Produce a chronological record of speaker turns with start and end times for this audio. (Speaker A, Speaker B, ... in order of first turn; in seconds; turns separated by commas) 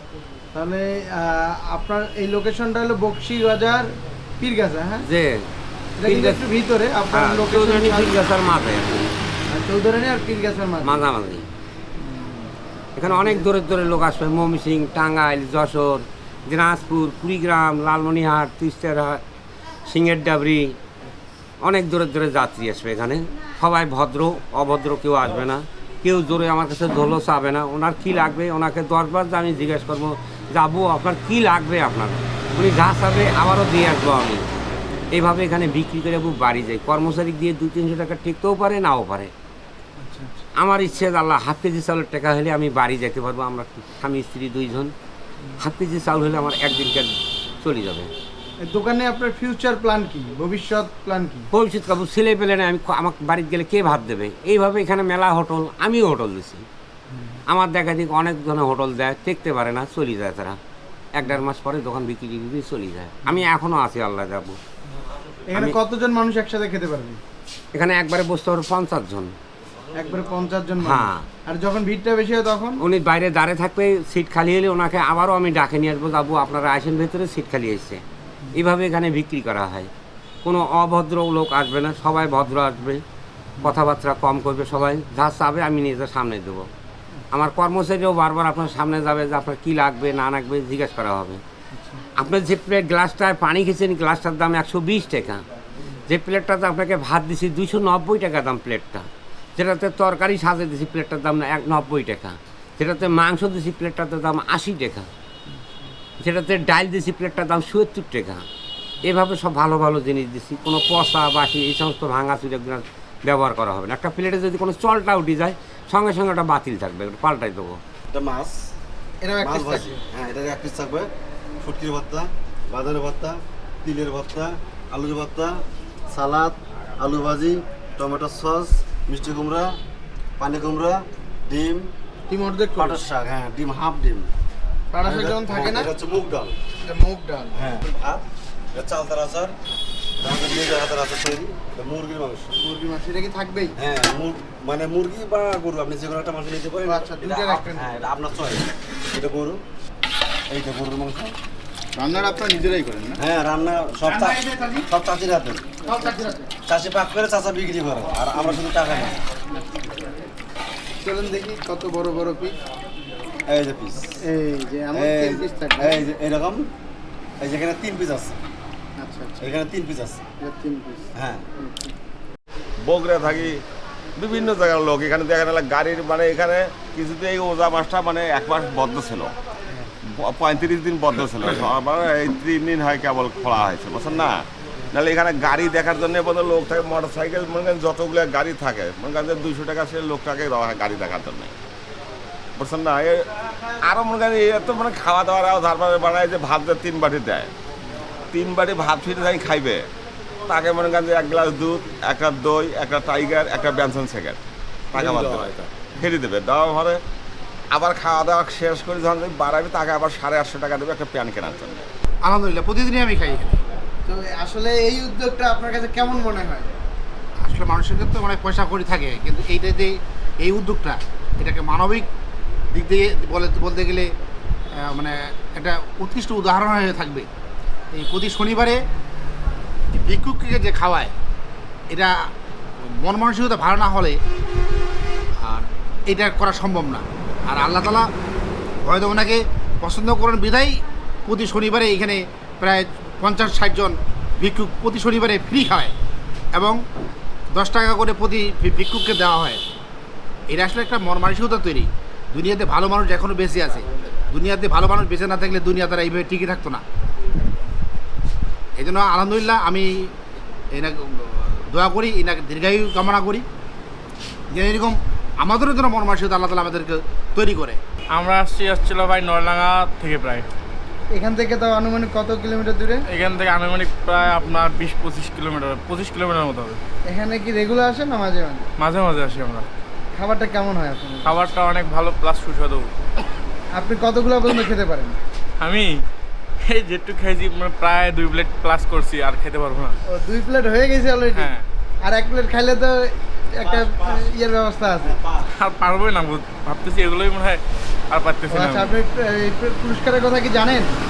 Speaker A: 0.5-3.9, Speaker A: 4.4-5.1, Speaker B: 5.0-5.5, Speaker A: 6.0-8.2, Speaker B: 6.0-6.4, Speaker B: 7.1-9.1, Speaker A: 9.5-11.1, Speaker B: 10.8-11.5, Speaker A: 12.0-12.5, Speaker B: 13.0-19.2, Speaker A: 13.0-13.4, Speaker B: 19.9-20.8, Speaker B: 21.6-34.4, Speaker B: 35.1-39.3, Speaker A: 40.0-40.4, Speaker B: 40.6-44.9, Speaker B: 45.6-48.1, Speaker A: 48.6-51.5, Speaker B: 51.5-56.7, Speaker A: 57.1-57.4, Speaker B: 57.5-60.6, Speaker B: 61.1-64.6, Speaker A: 65.5-67.2, Speaker B: 67.7-69.3, Speaker A: 69.9-72.8, Speaker B: 70.8-71.3, Speaker B: 72.8-78.0, Speaker B: 78.5-79.9, Speaker B: 80.4-83.0, Speaker B: 83.6-86.7, Speaker B: 87.3-91.4, Speaker A: 91.7-92.0, Speaker B: 92.2-95.4, Speaker B: 96.1-105.1, Speaker B: 106.2-108.5, Speaker B: 109.0-117.8, Speaker C: 118.1-118.7, Speaker A: 119.2-120.0, Speaker C: 119.4-129.8, Speaker C: 130.4-131.9, Speaker A: 132.3-133.0, Speaker C: 132.7-134.3, Speaker A: 134.9-135.9, Speaker C: 135.1-136.6, Speaker A: 136.8-137.6, Speaker C: 137.5-139.6, Speaker C: 140.2-142.5, Speaker A: 142.6-143.7, Speaker C: 143.8-149.6, Speaker A: 146.8-147.9, Speaker C: 150.5-151.4, Speaker A: 152.0-153.2, Speaker C: 153.2-155.7, Speaker A: 155.8-156.5, Speaker C: 156.7-159.2, Speaker A: 159.5-159.9, Speaker A: 161.0-162.6, Speaker C: 163.5-164.2, Speaker A: 164.2-166.0, Speaker C: 164.9-166.7, Speaker C: 167.4-168.4, Speaker A: 169.0-169.5, Speaker C: 169.4-170.2, Speaker A: 170.4-171.9, Speaker C: 171.2-171.5, Speaker D: 172.8-173.6, Speaker D: 174.2-179.4, Speaker D: 180.0-191.6, Speaker D: 192.6-193.3, Speaker D: 193.8-197.5, Speaker D: 198.3-199.9, Speaker D: 200.5-204.4, Speaker D: 204.9-207.0, Speaker C: 205.0-205.4, Speaker D: 207.7-211.8, Speaker E: 212.2-213.6, Speaker A: 214.1-216.7, Speaker E: 217.4-222.1, Speaker E: 222.7-224.1, Speaker E: 224.7-227.3, Speaker E: 227.9-228.8, Speaker E: 229.9-231.2, Speaker E: 231.9-232.2, Speaker E: 232.8-234.2, Speaker E: 235.4-238.1, Speaker E: 238.8-245.9, Speaker E: 246.5-246.8, Speaker E: 247.5-249.6, Speaker E: 250.5-256.8, Speaker E: 258.8-260.1, Speaker E: 260.7-263.5, Speaker E: 264.5-267.8, Speaker F: 268.1-270.5, Speaker A: 271.1-273.1, Speaker F: 273.1-276.8, Speaker A: 277.1-278.7, Speaker F: 278.8-279.7, Speaker A: 280.1-281.4, Speaker F: 281.2-282.9, Speaker A: 283.7-285.2, Speaker F: 285.6-286.0, Speaker F: 286.6-290.0, Speaker A: 290.1-295.2, Speaker F: 291.3-291.6, Speaker C: 293.6-294.3, Speaker C: 295.0-295.5, Speaker F: 295.6-299.0, Speaker A: 298.5-300.9